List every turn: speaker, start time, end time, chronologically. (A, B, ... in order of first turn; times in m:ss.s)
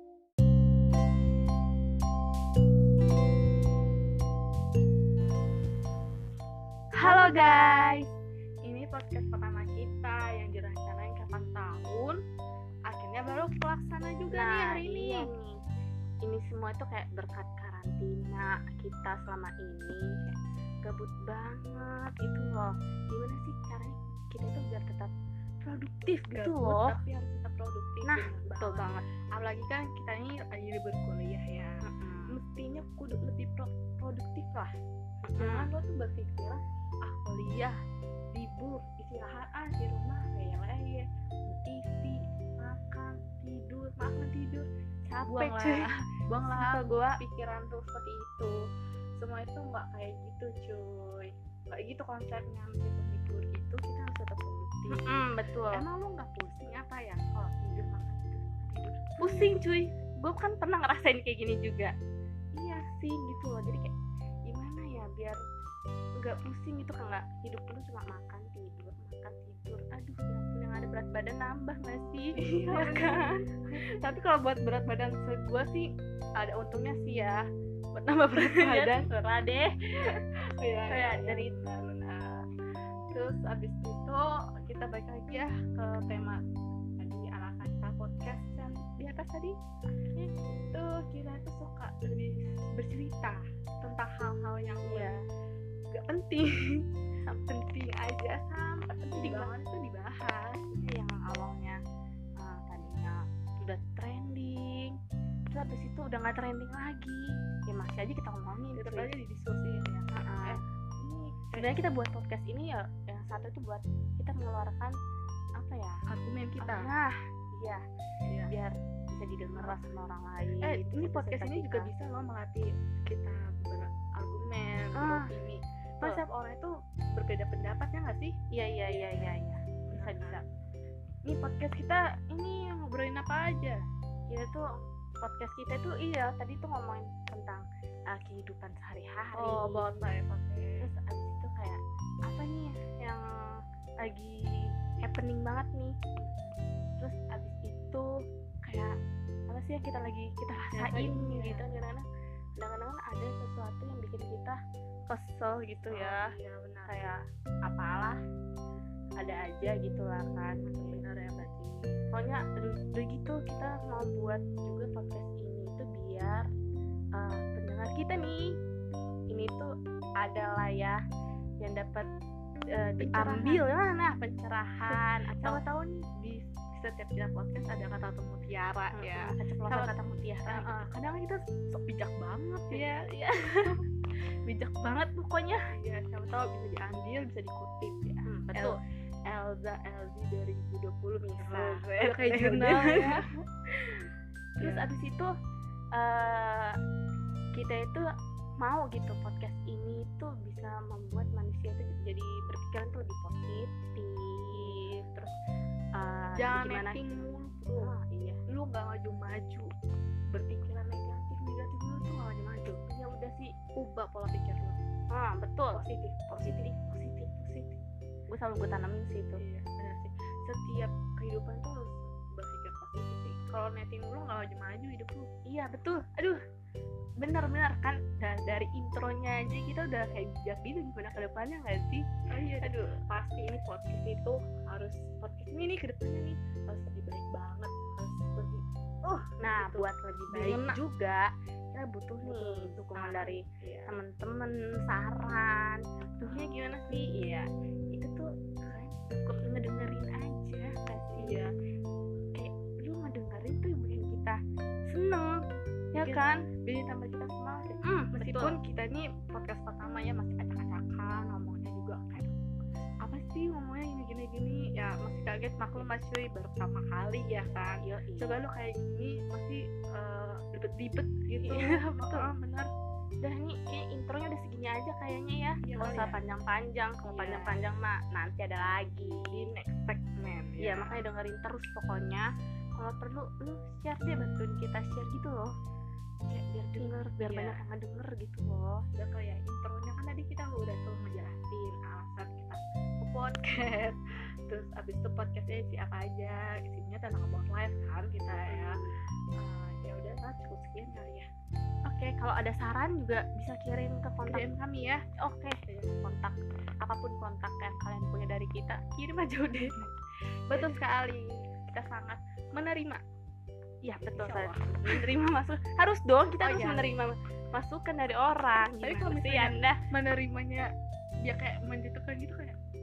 0:07.0-0:08.1 A
0:07.0-0:08.0 B
0:08.6-0:12.2 A
0:12.9-0:15.3 A
0:14.3-0:15.6 B
0:16.2-0:25.1 B
0:25.6-0:27.0 B
0:26.3-0:34.8 A
0:28.0-0:29.0 B
0:31.8-0:32.4 B
0:35.2-0:35.7 B
0:35.4-0:37.8 A
0:38.3-0:44.7 A
0:45.1-0:45.9 B
0:45.2-0:48.6 A
0:46.4-0:47.2 B
0:49.2-0:59.6 A
0:54.9-0:55.9 B
0:59.2-1:01.9 B
1:02.6-1:02.9 A
1:02.7-1:03.9 B
1:04.5-1:05.4 B
1:06.2-1:13.5 B
1:12.4-1:17.4 A
1:18.0-1:19.1 A
1:18.2-1:19.7 B
1:20.0-1:22.5 A
1:20.9-1:21.6 B
1:23.1-1:26.4 A
1:27.0-1:29.6 A
1:30.2-1:35.2 A
1:34.9-1:35.2 B
1:35.9-1:41.0 A
1:39.2-1:39.5 B
1:40.9-1:41.8 B
1:42.4-1:45.0 B
1:45.5-1:49.1 B
1:48.7-1:51.8 A
1:50.1-1:50.6 B
1:51.5-1:55.0 B
1:55.6-1:56.0 B
1:56.1-1:56.9 A
1:56.6-1:57.8 B
1:58.3-1:58.5 A
1:58.5-2:01.9 B
1:59.5-1:59.8 A
2:00.6-2:10.4 A
2:04.9-2:05.3 B
2:08.5-2:10.4 B
2:11.3-2:13.8 A
2:14.3-2:14.7 B
2:15.2-2:20.0 B
2:19.3-2:20.9 A
2:20.8-2:26.0 B
2:26.2-2:26.6 A
2:27.0-2:28.1 B
2:28.6-2:29.0 B
2:29.5-2:32.0 B
2:30.7-2:31.6 A
2:32.6-2:34.6 B
2:35.1-2:36.3 B
2:35.9-2:37.2 A
2:36.9-2:38.2 B
2:39.2-2:41.1 B
2:40.6-2:42.1 A
2:42.1-2:46.5 B
2:47.2-2:48.6 B
2:49.3-2:49.7 B
2:50.2-2:51.0 B
2:51.6-2:52.1 B
2:52.7-2:55.6 B
2:53.0-2:53.7 A
2:54.8-3:03.8 A
2:58.9-3:00.9 B
3:02.7-3:03.8 B
3:04.5-3:05.7 B
3:05.7-3:13.3 A
3:08.2-3:08.8 B
3:11.3-3:13.2 B
3:14.6-3:14.9 A
3:14.6-3:15.3 B
3:16.0-3:16.8 B
3:17.6-3:18.0 B
3:18.6-3:25.4 B
3:24.5-3:25.0 A
3:26.0-3:27.0 B
3:26.4-3:27.9 A
3:27.7-3:28.4 B
3:28.5-3:29.7 A
3:30.3-3:32.8 A
3:32.9-3:33.6 B
3:33.8-3:34.8 A
3:35.1-3:37.7 B
3:35.7-3:36.9 A
3:38.3-3:39.4 B
3:39.4-3:45.3 A
3:45.4-3:46.4 B
3:47.2-3:52.1 B
3:52.3-4:00.8 A
3:52.6-3:52.9 B
3:59.4-4:11.5 B
4:02.2-4:03.9 A
4:06.2-4:06.6 A
4:11.1-4:11.5 A
4:12.4-4:14.4 B
4:14.9-4:15.4 B
4:15.9-4:22.3 A
4:15.9-4:16.5 B
4:17.8-4:18.6 B
4:23.0-4:32.7 A
4:27.5-4:28.4 B
4:31.4-4:32.3 B
4:33.2-4:39.5 B
4:35.6-4:36.2 A
4:37.0-4:37.6 A
4:39.3-4:41.1 A
4:40.6-4:45.5 B
4:46.3-4:48.9 B
4:46.8-4:47.6 A
4:49.0-4:58.9 A
4:58.3-4:59.0 B
4:59.4-5:01.3 A
5:01.9-5:04.5 B
5:04.2-5:05.0 A
5:05.2-5:09.8 B
5:10.5-5:13.0 A
5:10.5-5:10.8 B
5:13.8-5:19.8 B
5:14.0-5:15.1 A
5:16.4-5:17.0 A
5:18.6-5:20.7 A
5:21.2-5:22.6 A